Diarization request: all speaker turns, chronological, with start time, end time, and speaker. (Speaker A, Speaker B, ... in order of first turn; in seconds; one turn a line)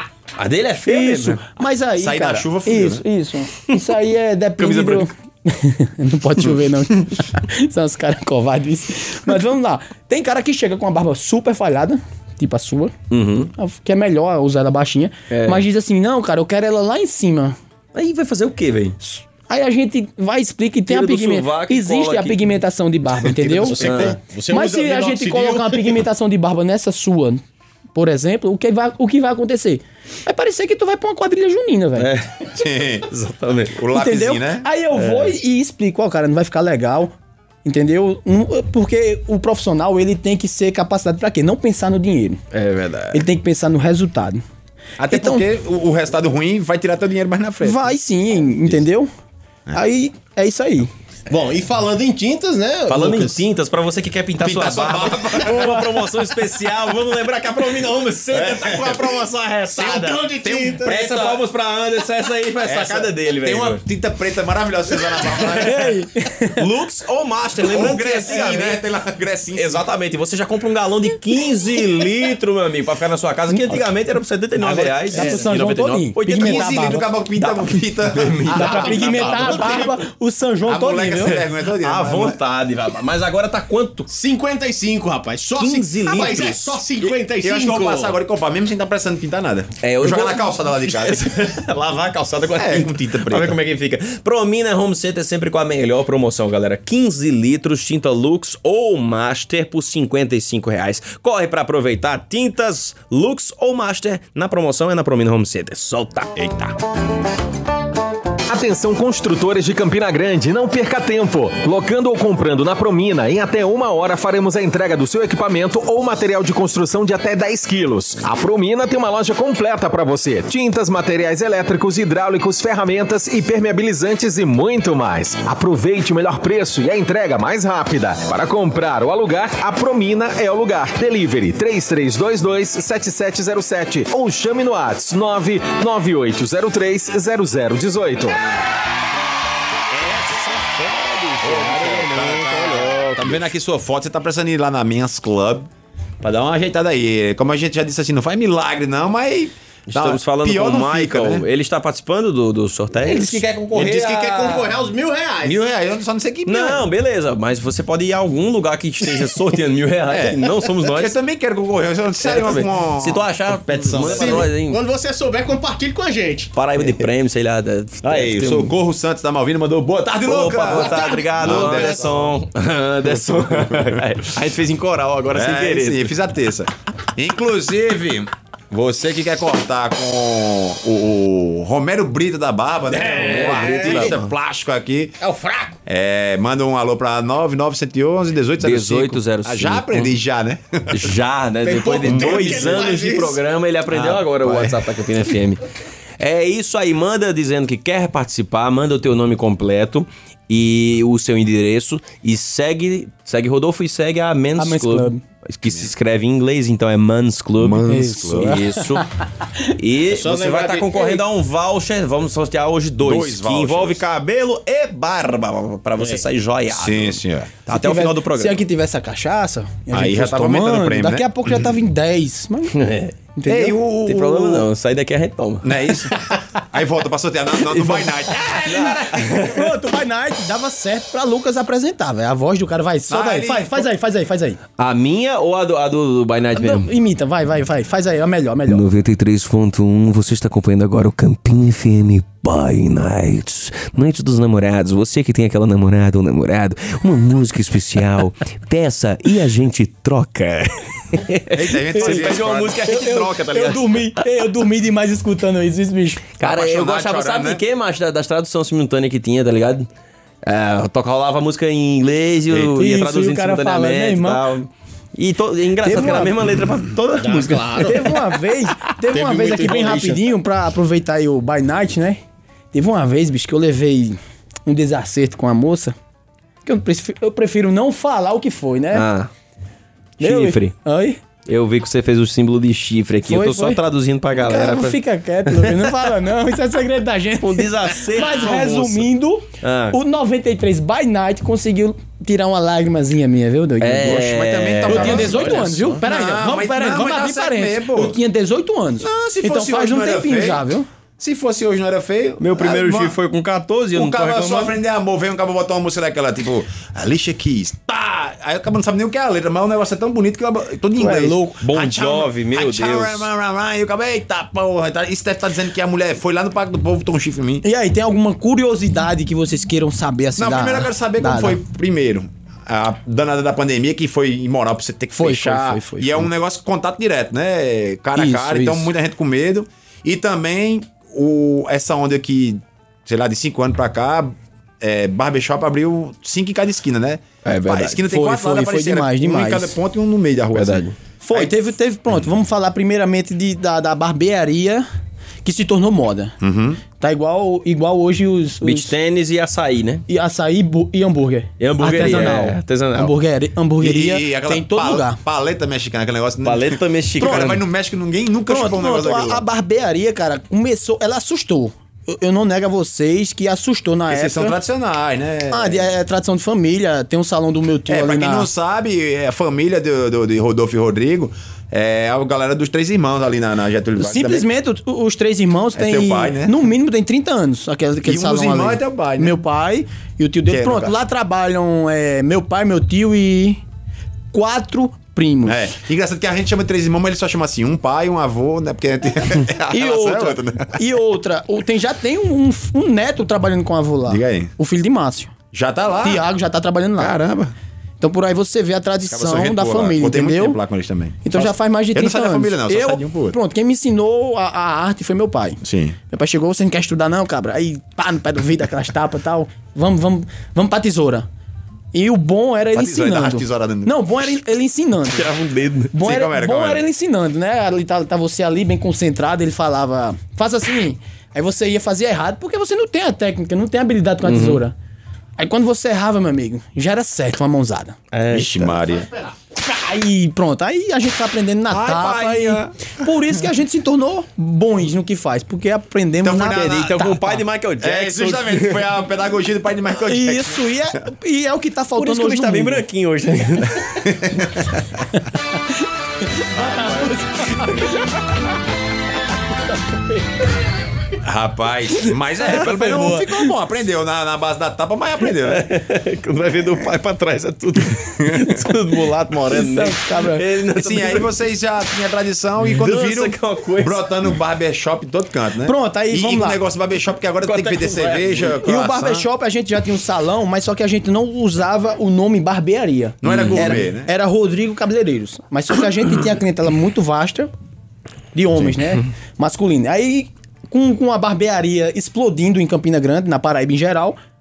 Speaker A: 0.3-1.4
Speaker B: 0.8-12.9
Speaker C: 2.0-3.0
Speaker A: 4.6-5.1
Speaker A: 13.1-13.5
Speaker B: 13.6-17.6
Speaker A: 15.3-15.6
Speaker A: 17.9-18.9
Speaker B: 19.1-27.4
Speaker A: 20.9-22.5
Speaker C: 23.2-24.1
Speaker D: 23.6-26.0
Speaker A: 23.8-24.1
Speaker B: 27.9-32.1
Speaker A: 31.9-32.5
Speaker C: 32.5-33.1
Speaker A: 33.1-33.8
Speaker C: 33.7-34.7
Speaker B: 33.9-37.1
Speaker A: 34.9-35.3
Speaker B: 37.6-42.4
Speaker A: 42.5-43.2
Speaker B: 43.1-44.4
Speaker C: 45.0-47.9
Speaker B: 45.1-45.4
Speaker B: 47.6-49.1
Speaker B: 49.7-50.9
Speaker D: 51.3-53.4
Speaker A: 52.9-63.8
Speaker C: 54.4-56.0
Speaker C: 58.3-59.2
Speaker D: 59.7-61.0
Speaker C: 60.4-61.4
Speaker C: 62.6-65.9
Speaker A: 65.4-65.6
Speaker B: 65.6-66.6
Speaker A: 66.5-68.8
Speaker C: 67.6-69.8
Speaker A: 69.5-79.9
Speaker B: 73.5-73.8
Speaker B: 74.6-77.0
Speaker C: 76.3-79.4
Speaker B: 78.5-81.4
Speaker D: 78.5-79.9
Speaker C: 80.7-82.4
Speaker A: 81.3-84.1
Speaker D: 84.1-88.2
Speaker A: 85.6-86.8
Speaker C: 87.0-91.4
Speaker A: 89.8-106.4
Speaker C: 92.5-93.6
Speaker C: 106.3-106.7
Speaker E: 108.5-138.4
Speaker A: 139.9-143.5
Speaker C: 141.4-145.7
Speaker C: 146.2-151.4
Speaker A: 149.9-153.4
Speaker C: 153.0-154.7
Speaker D: 153.3-155.6
Speaker C: 155.4-156.9
Speaker A: 156.4-161.1
Speaker C: 160.1-164.5
Speaker A: 162.2-164.8
Speaker D: 163.8-166.5
Speaker A: 166.5-168.7
Speaker C: 168.0-172.4
Speaker A: 170.2-176.1
Speaker D: 170.7-172.1
Speaker C: 173.1-174.0
Speaker C: 175.3-185.2
Speaker D: 182.9-184.2
Speaker A: 183.1-184.2
Speaker D: 185.2-185.8
Speaker C: 185.8-191.1
Speaker A: 188.6-190.2
Speaker A: 190.9-195.6
Speaker D: 191.6-193.4
Speaker C: 192.0-193.0
Speaker C: 193.9-194.8
Speaker A: 196.2-209.0
Speaker B: 204.6-205.2
Speaker C: 207.6-208.6
Speaker B: 207.9-209.1
Speaker A: 209.8-218.6
Speaker D: 210.1-211.2
Speaker C: 213.0-214.0
Speaker D: 216.0-216.2
Speaker C: 216.7-217.6
Speaker B: 217.7-222.8
Speaker C: 219.9-221.7
Speaker A: 222.7-223.1
Speaker B: 223.3-223.8
Speaker C: 223.4-224.7
Speaker A: 224.1-225.9
Speaker C: 225.6-229.6
Speaker A: 227.7-228.1
Speaker A: 228.7-229.7
Speaker B: 229.4-234.6
Speaker C: 233.1-233.9
Speaker A: 234.8-236.9
Speaker B: 236.5-238.8
Speaker A: 238.7-254.1
Speaker C: 251.5-252.9
Speaker B: 251.9-256.3
Speaker A: 256.4-259.9
Speaker C: 256.4-257.6
Speaker A: 260.4-268.0
Speaker C: 262.5-262.8
Speaker B: 262.8-264.4
Speaker B: 265.8-266.4
Speaker D: 267.1-268.2
Speaker B: 267.8-272.2
Speaker D: 269.1-270.3
Speaker B: 272.7-275.9
Speaker B: 276.6-279.1
Speaker A: 278.9-279.3
Speaker A: 280.2-280.7
Speaker B: 280.2-281.2
Speaker A: 281.4-286.1
Speaker B: 283.2-283.8
Speaker B: 284.4-300.9
Speaker A: 287.4-289.1
Speaker A: 289.6-290.0
Speaker A: 293.8-295.8
Speaker C: 294.0-298.2
Speaker C: 299.0-300.7
Speaker C: 301.2-303.2
Speaker A: 302.4-304.8
Speaker C: 303.9-317.6
Speaker B: 311.0-311.6
Speaker A: 311.6-313.3
Speaker B: 317.6-321.6
Speaker C: 320.4-341.5
Speaker B: 325.1-326.3
Speaker B: 328.1-328.9
Speaker A: 337.4-338.0
Speaker B: 338.1-339.8
Speaker A: 340.5-340.9
Speaker B: 341.2-344.9
Speaker B: 345.4-346.4
Speaker C: 346.4-346.8
Speaker B: 347.0-348.9
Speaker A: 348.6-350.0
Speaker B: 350.1-355.2
Speaker A: 351.6-353.1
Speaker C: 352.0-352.4
Speaker C: 353.8-359.4
Speaker A: 356.4-357.6
Speaker B: 358.5-364.6
Speaker C: 364.1-365.9
Speaker B: 365.5-368.5
Speaker C: 367.9-374.5
Speaker B: 374.0-383.6
Speaker C: 375.7-376.5
Speaker C: 378.0-379.4
Speaker C: 380.5-380.9
Speaker B: 384.3-385.7
Speaker C: 385.4-390.8
Speaker B: 389.7-395.3
Speaker C: 394.1-394.5
Speaker C: 395.5-396.2
Speaker B: 396.0-397.2
Speaker C: 397.0-397.5
Speaker B: 398.0-400.6
Speaker C: 399.0-403.4
Speaker B: 401.2-411.3
Speaker C: 405.6-406.0
Speaker B: 411.9-415.3
Speaker C: 412.7-414.3
Speaker A: 415.1-415.9
Speaker B: 415.9-424.7
Speaker C: 416.0-416.8
Speaker A: 424.2-424.6
Speaker B: 425.4-428.0
Speaker A: 428.1-428.7
Speaker C: 428.3-429.1
Speaker B: 429.6-437.4
Speaker C: 431.7-433.1
Speaker C: 436.2-436.9
Speaker A: 436.4-438.9
Speaker C: 437.8-440.7
Speaker B: 440.0-442.8
Speaker A: 441.9-444.1
Speaker C: 444.0-444.8
Speaker B: 445.7-447.9
Speaker C: 446.5-447.5
Speaker C: 451.2-455.7
Speaker B: 452.4-453.3
Speaker A: 452.6-453.1
Speaker A: 455.4-461.3
Speaker C: 458.2-458.6
Speaker B: 459.5-460.4
Speaker C: 460.7-469.2
Speaker A: 462.6-464.1
Speaker B: 465.6-466.6
Speaker A: 467.4-468.9
Speaker B: 468.6-477.5
Speaker C: 473.2-474.1
Speaker A: 473.2-473.7
Speaker B: 478.3-484.2
Speaker C: 478.5-478.8